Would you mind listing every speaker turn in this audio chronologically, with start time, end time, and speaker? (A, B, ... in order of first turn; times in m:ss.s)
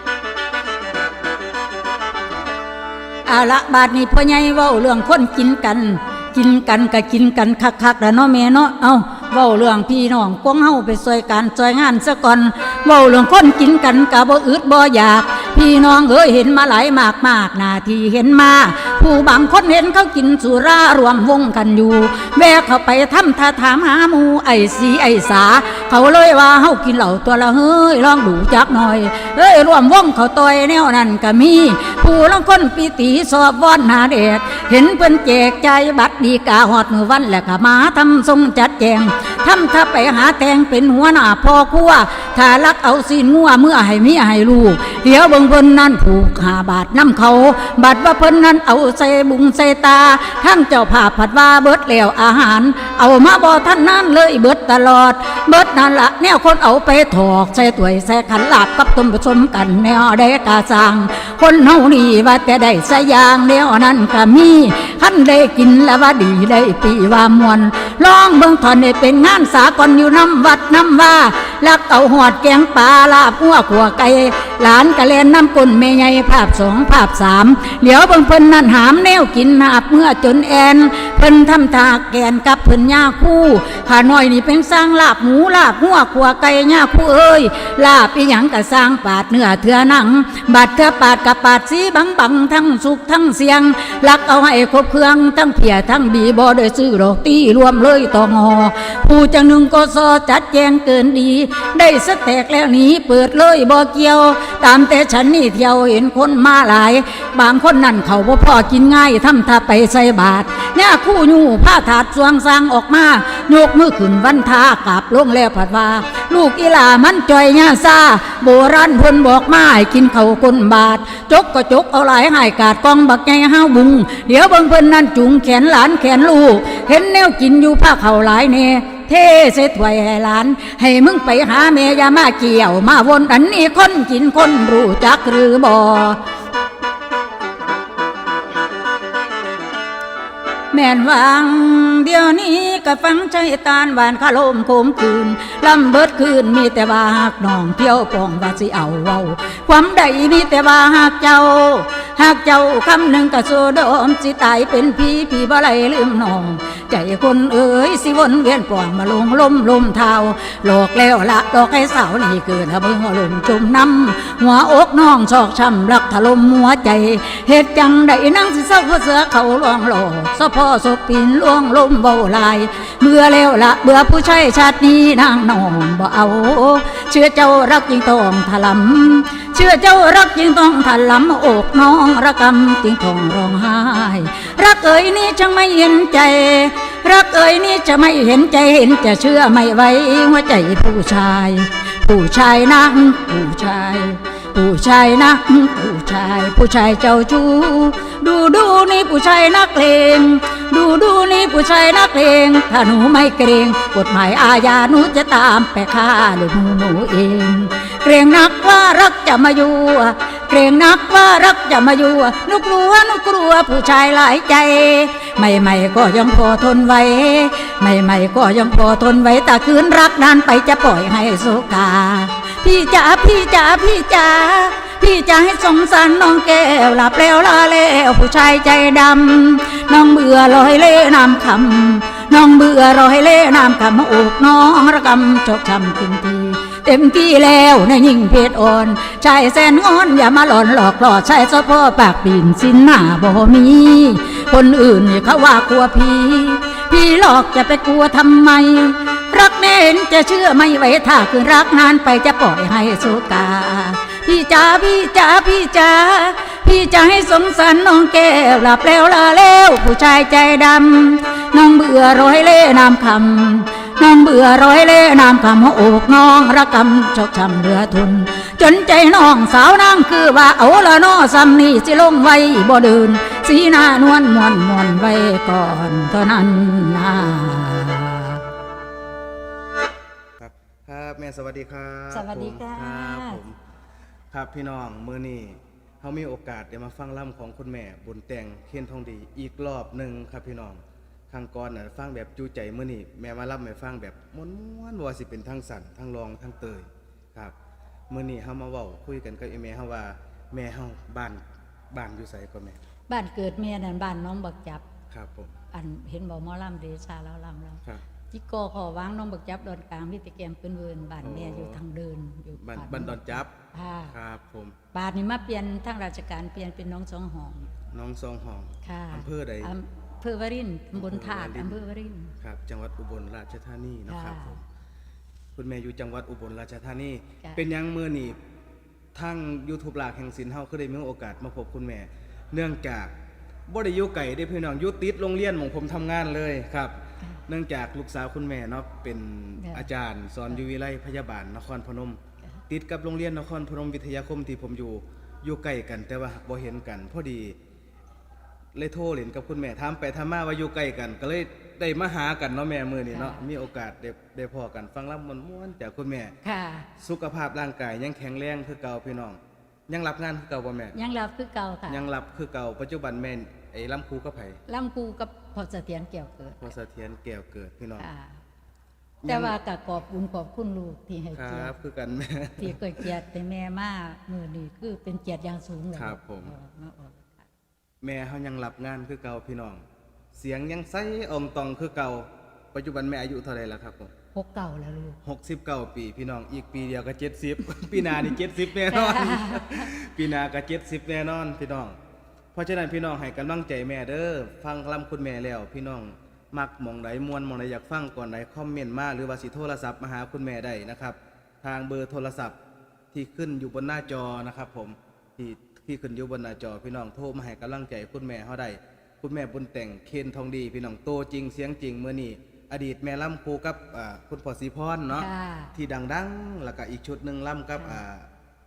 0:03.2-2:16.2 A
2:20.7-4:38.4 A
4:40.4-4:43.6 B
4:42.1-4:43.4 A
4:44.3-4:57.5 B
4:58.1-5:02.8 B
5:03.1-5:04.8 A
5:05.1-5:05.6 B
5:05.7-5:14.1 A
5:11.2-5:11.8 B
5:12.6-5:13.5 B
5:14.1-5:14.8 B
5:14.9-5:17.7 A
5:17.9-5:19.7 B
5:18.8-5:22.3 A
5:20.9-5:21.8 B
5:22.4-5:24.6 B
5:24.1-5:24.5 A
5:25.6-5:28.4 B
5:29.1-5:33.1 B
5:33.7-5:37.0 B
5:37.5-5:47.6 B
5:39.6-5:39.8 A
5:48.7-5:56.3 B
5:53.1-5:53.4 A
5:56.4-5:56.9 A
5:57.0-6:01.0 B
6:00.9-6:02.0 A
6:01.9-6:04.6 B
6:04.7-6:06.7 A
6:06.6-6:08.1 B
6:08.0-6:08.3 A
6:09.2-6:11.7 A
6:09.2-6:09.5 B
6:11.3-6:13.1 B
6:12.6-6:17.4 A
6:15.9-6:16.5 B
6:18.0-6:24.1 B
6:24.3-6:25.2 A
6:25.2-6:32.0 B
6:28.9-6:29.9 A
6:32.5-6:42.6 B
6:43.1-6:58.3 B
6:55.1-6:55.7 A